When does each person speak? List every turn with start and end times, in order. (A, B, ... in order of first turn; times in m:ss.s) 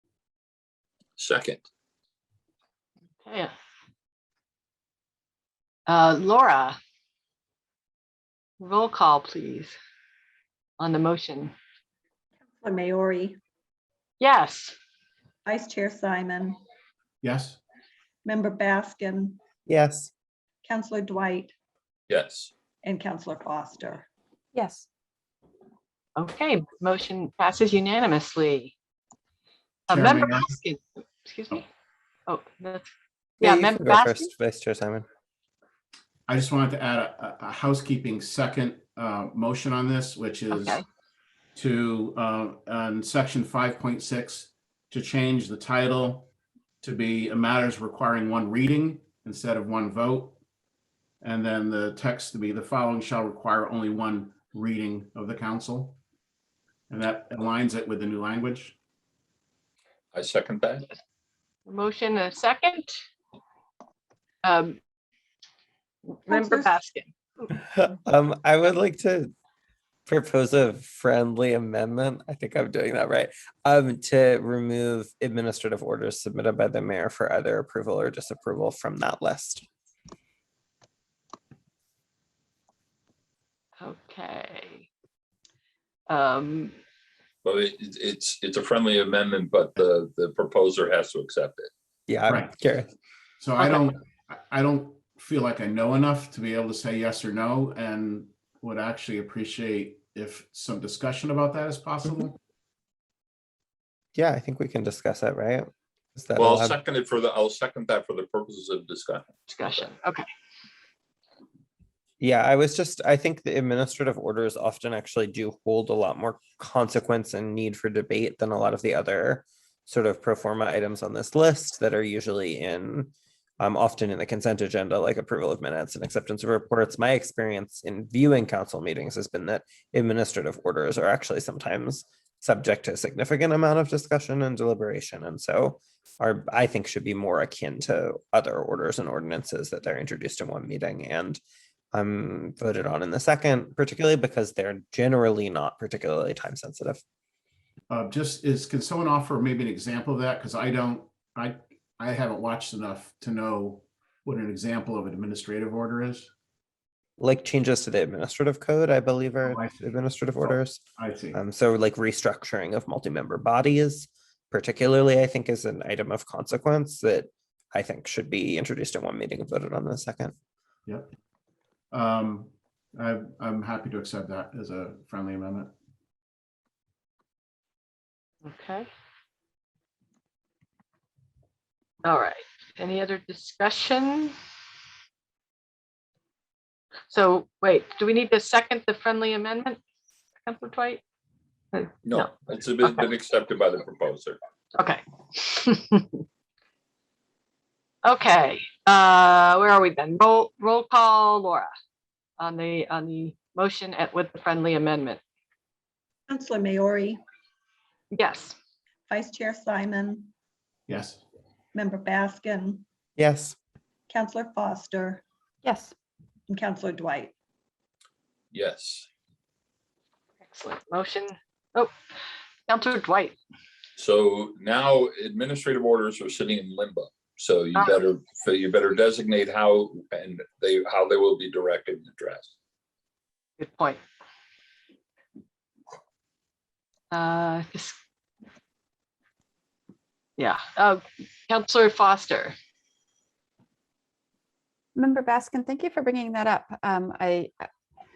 0:01.2-0:01.6 A
0:03.2-0:03.5 B
0:05.9-0:06.8 B
0:08.6-0:09.7 B
0:10.8-0:11.5 B
0:12.5-0:13.4 C
0:14.2-0:14.8 B
0:15.4-0:16.6 C
0:17.2-0:17.6 D
0:18.2-0:19.4 C
0:19.7-0:20.1 E
0:20.6-0:21.5 C
0:22.1-0:22.5 A
0:22.8-0:24.1 C
0:24.5-0:24.8 F
0:26.2-0:28.7 B
0:29.9-0:31.6 B
0:29.9-0:30.5 D
0:32.3-0:32.9 B
0:33.4-0:34.3 B
0:33.4-0:35.0 E
0:36.3-0:40.8 D
0:40.5-0:40.8 B
0:41.5-0:46.3 D
0:46.8-0:50.4 D
0:51.2-0:56.0 D
0:56.9-0:58.8 D
1:00.1-1:00.8 A
1:01.6-1:02.9 B
1:04.4-1:04.8 B
1:06.2-1:07.1 B
1:06.3-1:06.7 C
1:07.5-1:09.3 E
1:10.1-1:19.6 E
1:23.8-1:24.9 B
1:26.1-1:26.7 B
1:27.4-1:31.7 A
1:32.1-1:32.9 E
1:32.3-1:32.6 D
1:33.4-1:42.3 D
1:44.1-1:46.8 E
1:46.4-1:49.9 A
1:49.5-1:50.2 B
1:52.2-2:21.4 E
2:21.9-2:27.0 E
2:27.9-2:36.3 D
2:37.2-2:40.8 E
2:39.4-2:39.8 D
2:40.4-2:41.4 D
2:41.3-2:50.3 E
2:51.9-2:55.7 D
2:58.4-2:58.9 B
3:02.0-3:04.3 B
3:07.1-3:09.8 B
3:10.4-3:11.0 B
3:11.7-3:12.3 B
3:12.0-3:14.4 A
3:12.8-3:13.1 B
3:14.7-3:16.2 B
3:18.0-3:21.7 B
3:22.4-3:25.2 B
3:26.3-3:27.2 C
3:28.1-3:28.6 B
3:29.1-3:30.3 C
3:30.9-3:31.2 D
3:31.7-3:32.8 C
3:33.2-3:33.6 E
3:34.1-3:35.2 C
3:35.6-3:35.9 F
3:36.5-3:37.3 C
3:38.5-3:39.1 A
3:40.4-3:41.9 B
3:42.7-3:43.4 B
3:44.0-3:52.5 A
3:53.6-3:54.0 B
3:57.1-3:58.0 B
4:00.4-4:02.5 B
4:05.0-4:07.5 F